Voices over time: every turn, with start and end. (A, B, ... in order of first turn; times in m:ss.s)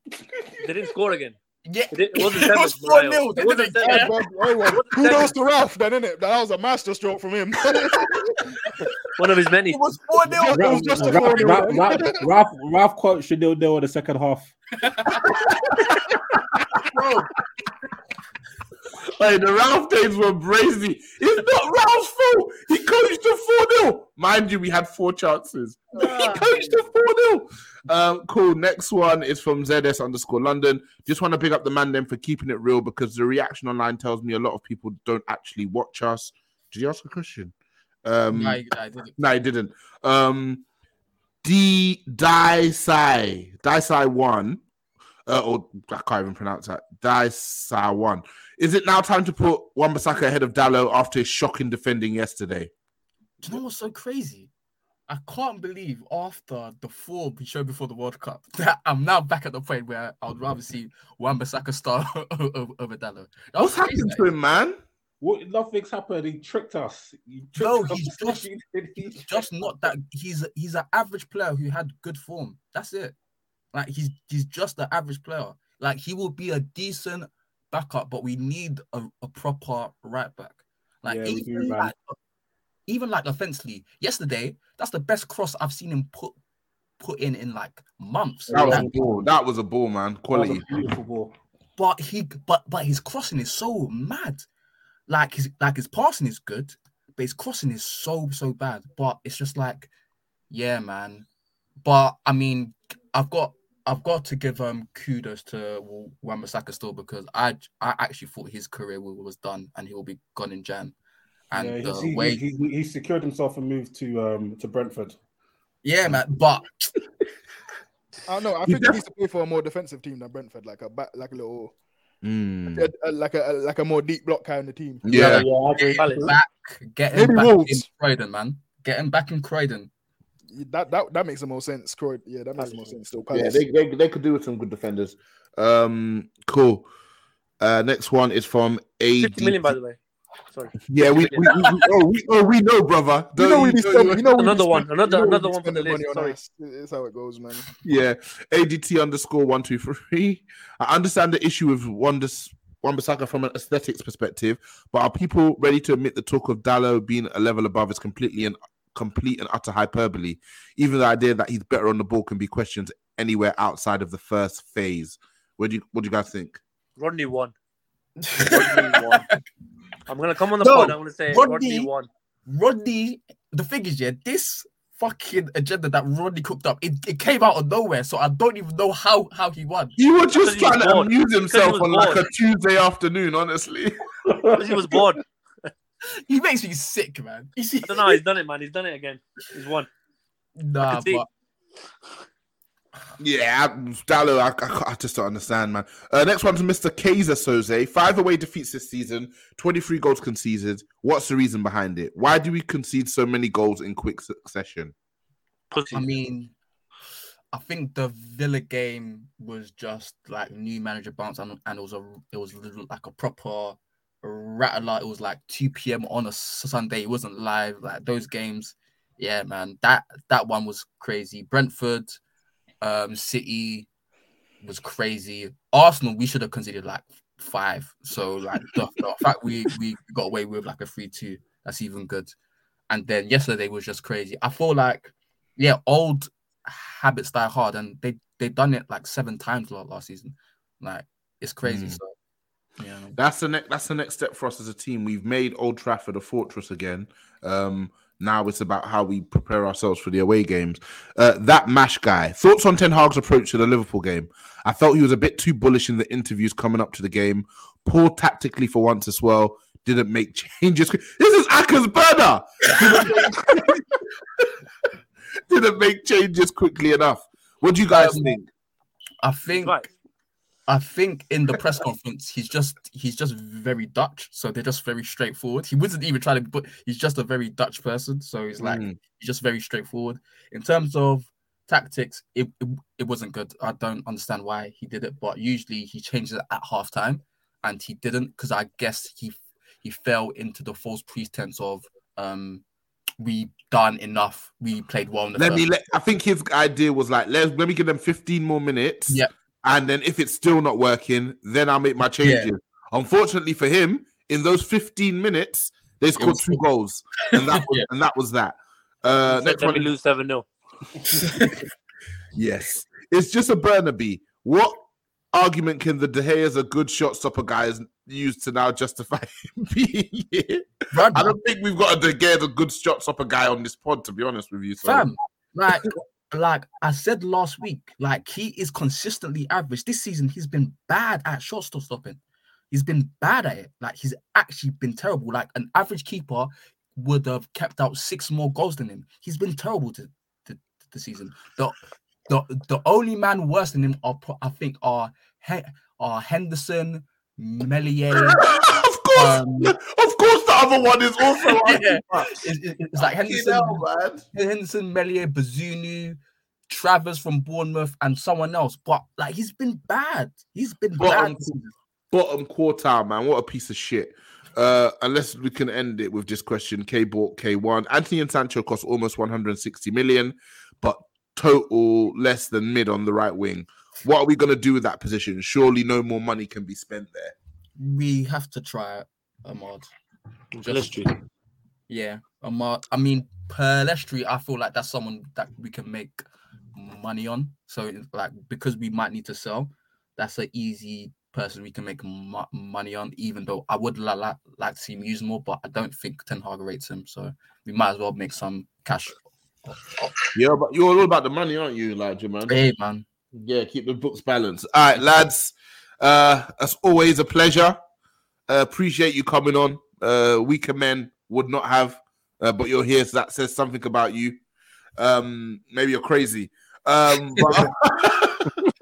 0:00.6-0:01.4 A
0:01.7-0:04.1 B
0:01.9-0:05.3 A
0:03.8-0:08.4 C
0:09.1-0:09.9 A
0:09.7-0:12.0 B
0:10.4-0:12.3 C
0:10.5-0:14.5 D
0:14.8-0:15.2 B
0:15.2-0:16.4 E
0:16.9-0:17.3 B
0:19.2-0:37.5 E
0:26.0-0:26.4 B
0:38.0-0:38.6 E
0:38.3-0:39.2 B
0:39.2-0:40.6 E
0:41.4-0:44.6 E
0:45.2-0:52.7 E
0:53.4-0:54.5 B
0:55.1-1:04.2 B
1:03.6-1:04.8 E
1:05.2-1:09.9 D
1:07.6-1:08.5 B
1:09.2-1:13.1 B
1:13.7-1:22.2 B
1:21.0-1:21.9 D
1:22.9-1:26.4 B
1:27.0-1:28.9 B
1:28.5-1:29.2 D
1:28.5-1:30.7 E
1:30.3-1:31.3 D
1:31.8-1:34.5 B
1:35.1-1:39.9 B
1:40.5-1:41.2 B
1:41.8-1:50.9 B
1:51.5-1:52.4 B
1:51.5-1:55.2 D
1:55.8-1:56.7 B
1:58.3-2:01.7 C
1:58.6-1:59.0 E
2:02.2-2:02.9 E
2:02.7-2:05.0 C
2:05.0-2:05.4 E
2:05.1-2:09.9 B
2:05.1-2:06.0 D
2:05.3-2:06.3 A
2:07.1-2:07.8 C
2:10.5-2:13.6 C
2:13.3-2:16.9 E
2:17.6-2:19.7 E
2:19.2-2:20.0 A
2:20.5-2:21.8 A
2:20.9-2:24.2 E
2:23.4-2:27.7 C
2:24.2-2:26.4 A
2:27.8-2:46.6 E
2:47.0-2:47.5 A
2:48.2-2:49.4 B
2:48.4-2:49.2 A
2:50.1-2:52.1 A
2:50.6-2:51.9 B
2:52.5-3:00.0 B
3:00.0-3:03.9 E
3:00.4-3:02.2 A
3:04.3-3:04.6 D
3:04.6-3:05.7 A
3:06.3-3:08.2 B
3:07.8-3:09.9 A
3:10.6-3:11.3 B
3:10.8-3:11.2 A
3:13.2-3:24.9 E
3:25.7-3:26.1 A
3:25.9-3:26.5 B
3:27.5-3:42.2 B
3:42.8-3:43.9 B
3:44.6-3:52.3 B
3:52.9-4:02.1 B
4:01.6-4:02.0 E
4:02.8-4:03.2 B
4:03.2-4:23.8 E
4:25.5-4:28.5 E
4:27.9-4:28.3 B
4:29.2-4:29.9 B
4:29.6-4:29.8 A
4:30.7-4:52.6 B
4:38.6-4:39.0 E
4:53.2-4:55.6 B
4:55.4-5:09.9 E
5:02.2-5:02.5 B
5:06.2-5:06.6 B
5:07.3-5:07.9 B
5:09.2-5:10.4 A
5:11.1-5:11.6 B
5:12.3-5:25.1 E
5:20.9-5:21.4 B
5:24.8-5:32.2 B
5:32.7-5:48.5 B
5:48.1-5:52.4 E
5:49.1-5:49.7 B
5:51.4-5:56.2 B
5:52.9-5:54.2 E
5:56.7-6:01.7 B
6:01.0-6:01.6 E
6:02.1-6:17.3 E
6:17.8-6:19.9 B
6:20.5-6:21.2 A
6:20.6-6:21.1 B
6:21.9-6:26.2 B
6:26.7-6:40.3 B
6:40.3-6:42.6 E
6:42.5-6:43.0 B
6:43.3-6:47.8 E
6:48.5-6:54.4 E
6:55.0-6:58.5 E